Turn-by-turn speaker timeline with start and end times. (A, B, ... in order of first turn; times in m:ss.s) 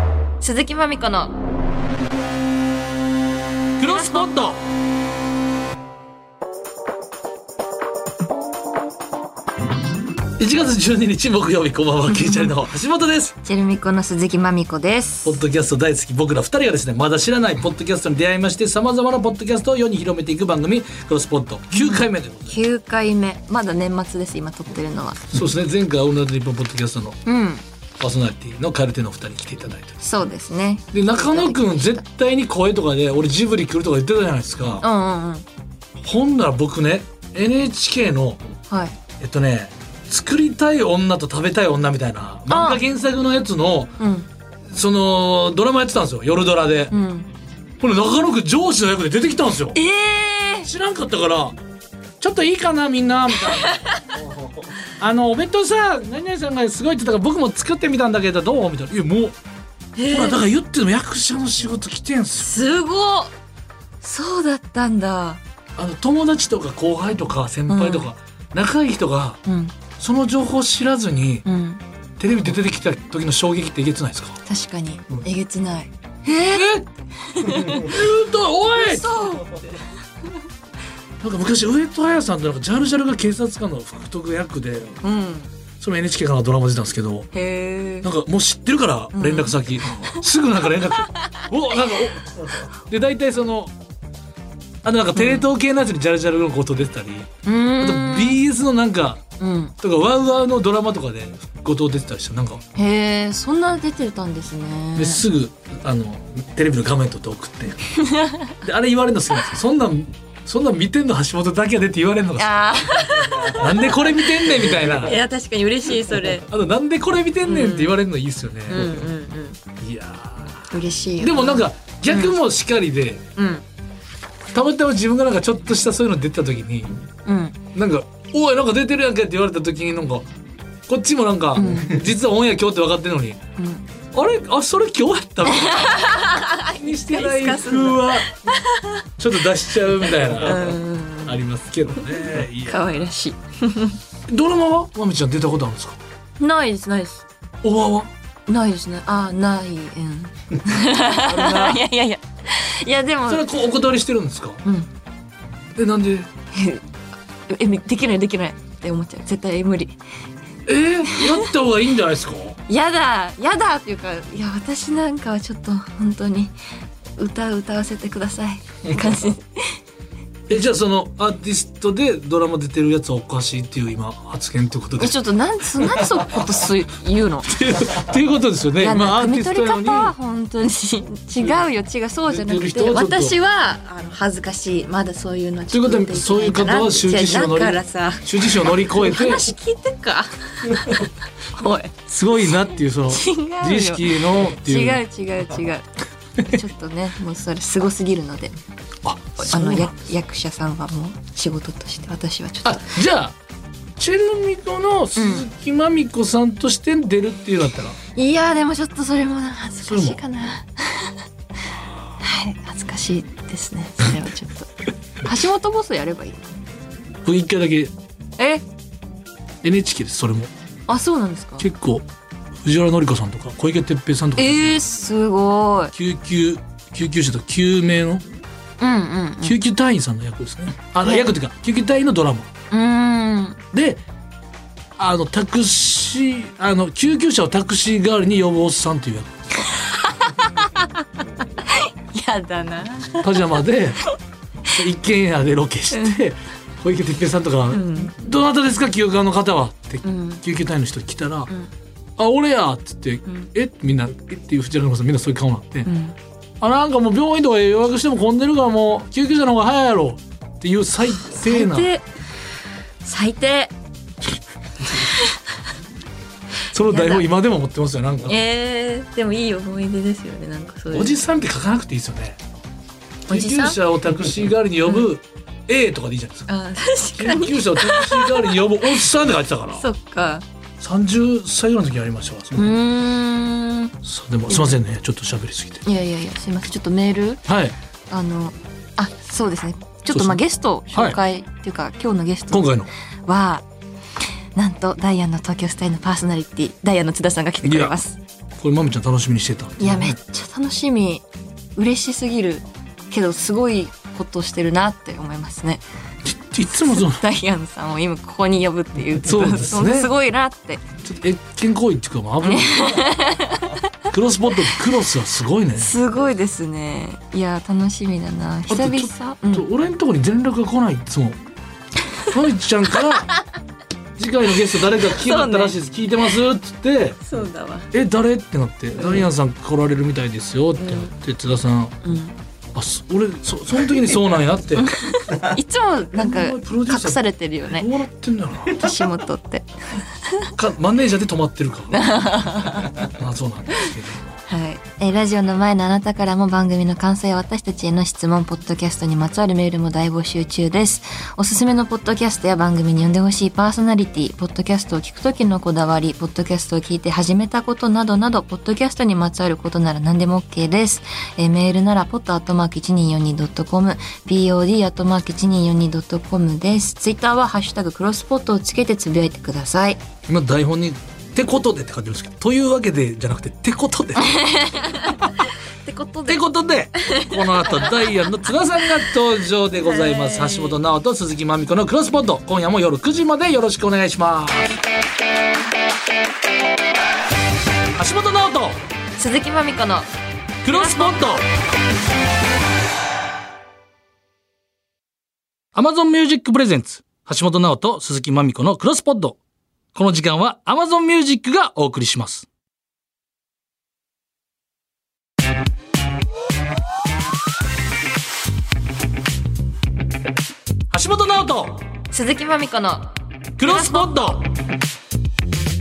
0:00.4-0:01.4 A
0:03.8-0:04.6 B
0:03.8-0:04.3 A
0:10.4-0:13.4 B
0:12.1-0:12.5 A
0:13.4-0:15.4 A
0:15.2-0:22.6 B
0:21.7-0:25.3 A
0:25.3-0:27.2 B
0:27.3-0:27.6 A
0:28.0-0:30.0 B
0:30.0-0:32.0 A
0:30.9-0:34.8 B
0:34.8-0:35.5 A
0:36.0-0:38.4 B
0:38.7-0:39.0 A
0:39.2-0:43.9 B
0:42.5-0:42.8 A
0:44.0-0:44.3 A
0:44.7-0:47.0 B
0:46.9-0:47.3 A
0:47.8-0:49.8 B
0:49.7-0:50.7 A
0:50.6-0:51.6 B
0:52.2-0:53.8 B
0:53.5-0:54.0 A
0:54.9-0:59.4 B
1:00.0-1:00.4 A
1:00.1-1:02.6 B
1:02.4-1:03.3 A
1:04.0-1:05.4 A
1:05.8-1:09.4 B
1:07.7-1:08.1 A
1:09.5-1:09.7 A
1:10.0-1:11.5 B
1:11.5-1:11.8 A
1:12.2-1:14.4 B
1:14.5-1:18.0 A
1:16.5-1:16.9 B
1:17.4-1:19.3 B
1:18.7-1:20.0 A
1:21.2-1:25.0 B
1:25.0-1:25.5 A
1:25.8-1:27.3 B
1:27.3-1:28.1 A
1:28.0-1:33.7 B
1:29.1-1:30.2 A
1:31.0-1:31.3 A
1:34.8-1:37.3 B
1:35.2-1:35.5 A
1:37.4-1:38.4 A
1:37.8-1:39.2 B
1:39.4-1:39.7 A
1:39.8-1:42.6 B
1:42.8-1:45.2 A
1:45.0-1:55.2 B
1:48.0-1:48.5 A
1:52.4-1:56.5 A
1:56.4-1:59.1 B
1:57.5-1:58.0 A
1:58.7-1:59.6 A
1:59.8-2:03.2 B
2:00.7-2:02.4 A
2:03.4-2:03.6 A
2:04.5-2:07.0 B
2:07.3-2:07.6 A
2:07.7-2:10.3 B
2:10.9-2:13.4 B
2:11.6-2:12.0 A
2:13.6-2:13.8 A
2:14.1-2:16.2 B
2:15.5-2:19.0 A
2:16.8-2:18.3 B
2:19.2-2:23.1 B
2:20.4-2:21.4 A
2:22.6-2:24.0 A
2:24.3-2:26.0 B
2:26.4-2:27.2 A
2:27.6-2:28.1 B
2:28.5-2:33.5 A
2:31.1-2:31.8 B
2:33.3-2:34.6 B
2:35.8-2:36.3 B
2:36.5-2:36.8 A
2:37.5-2:40.0 A
2:40.7-2:42.6 B
2:41.0-2:41.5 A
2:42.7-2:46.5 A
2:47.2-2:49.8 A
2:50.5-2:55.2 B
2:55.0-2:57.8 A
2:55.8-2:56.1 B
2:57.5-3:00.1 B
2:58.8-3:11.9 A
3:02.3-3:03.4 B
3:05.7-3:09.5 B
3:10.7-3:11.0 B
3:12.1-3:15.0 B
3:12.5-3:15.9 A
3:16.4-3:18.5 A
3:19.0-3:19.9 B
3:19.4-3:22.9 A
3:22.6-3:23.4 B
3:24.0-3:28.0 B
3:25.2-3:25.5 A
3:28.2-3:31.2 A
3:29.9-3:30.2 B
3:32.2-3:36.6 A
3:37.3-3:37.9 B
3:38.4-3:38.6 A
3:39.6-3:40.5 B
3:40.9-3:41.7 A
3:41.6-3:42.0 B
3:42.6-3:44.8 B
3:44.4-3:45.9 A
3:45.9-3:48.2 B
3:48.8-3:49.6 A
3:49.4-3:52.5 B
3:51.0-3:51.3 A
3:52.7-3:53.6 A
3:53.7-3:54.0 B
3:55.0-3:59.3 B
3:59.7-4:01.0 A
4:01.6-4:03.5 A
4:03.2-4:04.1 B
4:04.7-4:11.5 B
4:05.9-4:06.2 A
4:07.7-4:08.1 A
4:10.0-4:10.4 A
4:12.2-4:15.9 B
4:15.9-4:16.2 A
4:16.6-4:21.9 B
4:21.2-4:22.1 A
4:23.0-4:23.7 A
4:26.7-4:28.4 B
4:26.9-4:27.3 A
4:28.3-4:31.2 A
4:30.9-4:32.4 B
4:33.3-4:36.5 B
4:33.3-4:33.8 A
4:36.5-4:39.0 A
4:37.1-4:39.8 B
4:39.8-4:40.4 A
4:40.8-4:42.8 B
4:42.6-4:43.9 A
4:44.0-4:45.8 B
4:44.5-4:44.8 A
4:45.9-4:47.4 A
4:47.5-4:47.8 B
4:48.1-4:53.6 A
4:50.1-4:50.4 B
4:50.9-4:51.2 B
4:52.5-4:52.9 B
4:54.6-4:58.2 A
4:57.6-4:58.0 B
4:58.6-5:00.2 B
4:59.8-5:01.2 A
5:01.8-5:05.8 A
5:06.2-5:07.2 B
5:06.7-5:10.8 A
5:09.2-5:10.1 B
5:11.0-5:13.1 B
5:12.4-5:13.8 A
5:14.1-5:15.9 B
5:15.8-5:19.7 A
5:18.7-5:21.4 B
5:22.3-5:23.3 B
5:23.1-5:23.4 A
5:24.2-5:27.2 B
5:25.0-5:25.8 A
5:27.3-5:27.9 A
5:27.9-5:32.0 B
5:30.8-5:31.1 A
5:32.0-5:32.4 A
5:32.8-5:35.0 B
5:34.8-5:37.9 A
5:36.2-5:38.9 B
5:38.7-5:40.5 A
5:40.5-5:42.1 B
5:41.9-5:43.1 A
5:42.9-5:44.3 B
5:44.5-6:10.0 A
6:10.3-6:14.4 B
6:14.2-6:17.9 A
6:15.1-6:15.3 B
6:16.3-6:24.6 B
6:19.8-6:20.8 A
6:28.0-6:28.8 B
6:29.2-6:30.1 A
6:30.6-6:31.4 B
6:30.7-6:31.4 A
6:35.8-6:39.4 B
6:39.9-6:42.5 B
6:50.9-6:51.9 B
6:52.1-6:54.2 A
6:53.6-6:54.5 B